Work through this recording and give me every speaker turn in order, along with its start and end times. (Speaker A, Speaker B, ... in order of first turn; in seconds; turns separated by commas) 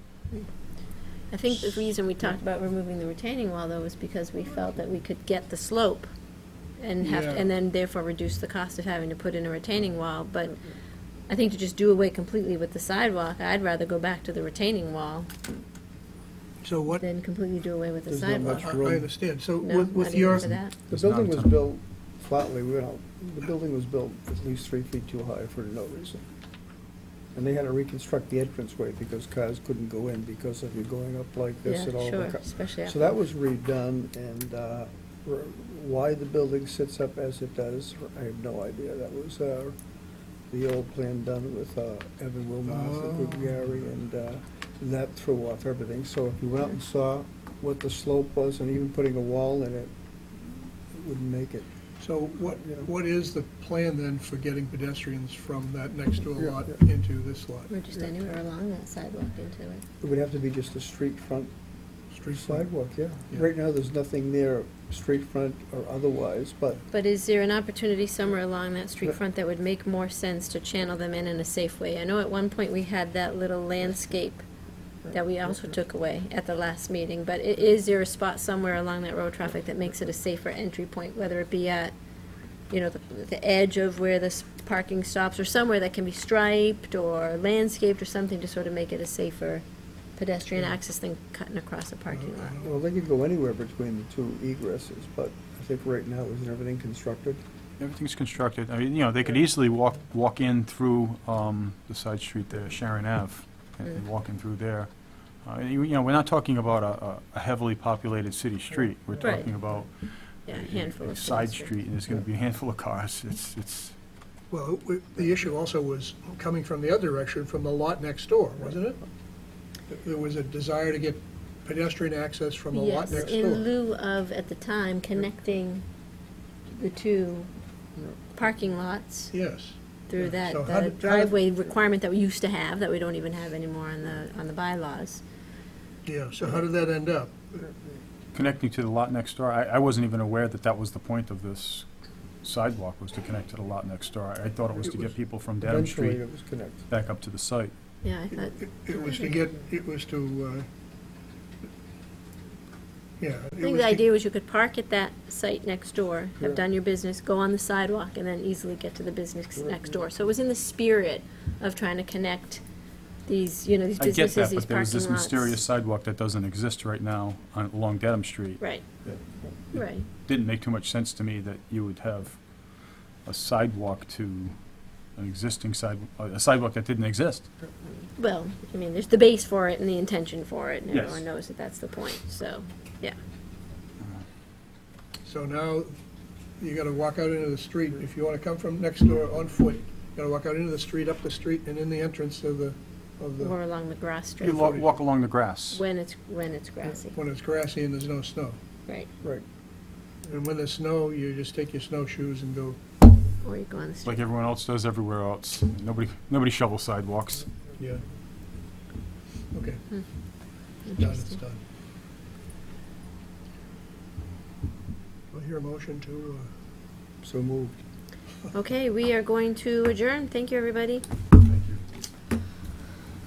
Speaker A: 1.3-6.1, Speaker A: 6.8-10.6, Speaker B: 7.0-7.5, Speaker A: 11.3-15.3, Speaker B: 16.6-17.0, Speaker A: 17.0-18.8, Speaker C: 18.1-19.1, Speaker B: 18.6-20.5, Speaker A: 19.6-20.8, Speaker D: 20.4-21.6, Speaker C: 20.9-26.3, Speaker C: 27.3-39.8, Speaker A: 31.6-33.1, Speaker C: 40.5-51.7, Speaker B: 42.7-43.6, Speaker B: 52.0-57.7, Speaker C: 52.6-52.8, Speaker C: 56.4-56.7, Speaker A: 57.7-59.8, Speaker C: 60.0-61.5, Speaker B: 62.1-62.7, Speaker C: 62.3-66.9, Speaker A: 66.9-74.4, Speaker A: 75.1-81.9, Speaker A: 82.7-89.6, Speaker A: 90.2-92.6, Speaker B: 92.1-92.7, Speaker C: 92.6-97.4, Speaker D: 97.8-104.9, Speaker D: 105.4-114.0, Speaker A: 109.2-109.5, Speaker A: 110.5-111.7, Speaker B: 114.5-119.0, Speaker B: 119.9-123.7, Speaker A: 122.7-125.8, Speaker A: 126.7-127.5, Speaker A: 128.3-129.3, Speaker B: 129.3-131.3, Speaker A: 130.1-135.2, Speaker B: 136.1-137.6, Speaker D: 138.3-141.9, Speaker D: 142.4-146.2, Speaker C: 145.6-146.9, Speaker D: 146.9-147.7, Speaker A: 148.0-149.4, Speaker B: 148.3-150.7, Speaker B: 153.2-154.1, Speaker A: 153.6-162.6, Speaker A: 163.3-165.6, Speaker D: 164.0-169.2, Speaker A: 169.7-170.1, Speaker D: 169.8-172.4, Speaker D: 173.2-174.6, Speaker D: 175.2-177.5, Speaker A: 178.2-183.2, Speaker D: 180.9-181.2, Speaker B: 185.2-185.9, Speaker B: 186.6-193.5, Speaker A: 193.4-194.8, Speaker D: 194.4-195.8, Speaker B: 194.5-195.0, Speaker A: 195.7-197.2, Speaker B: 197.1-198.6, Speaker B: 200.3-202.8, Speaker A: 203.4-204.2, Speaker D: 204.0-207.5, Speaker B: 207.8-208.0, Speaker B: 209.5-209.8, Speaker A: 210.8-211.3, Speaker B: 210.9-211.6, Speaker B: 215.3-216.5, Speaker C: 217.2-217.8, Speaker A: 218.5-221.1, Speaker D: 221.4-221.8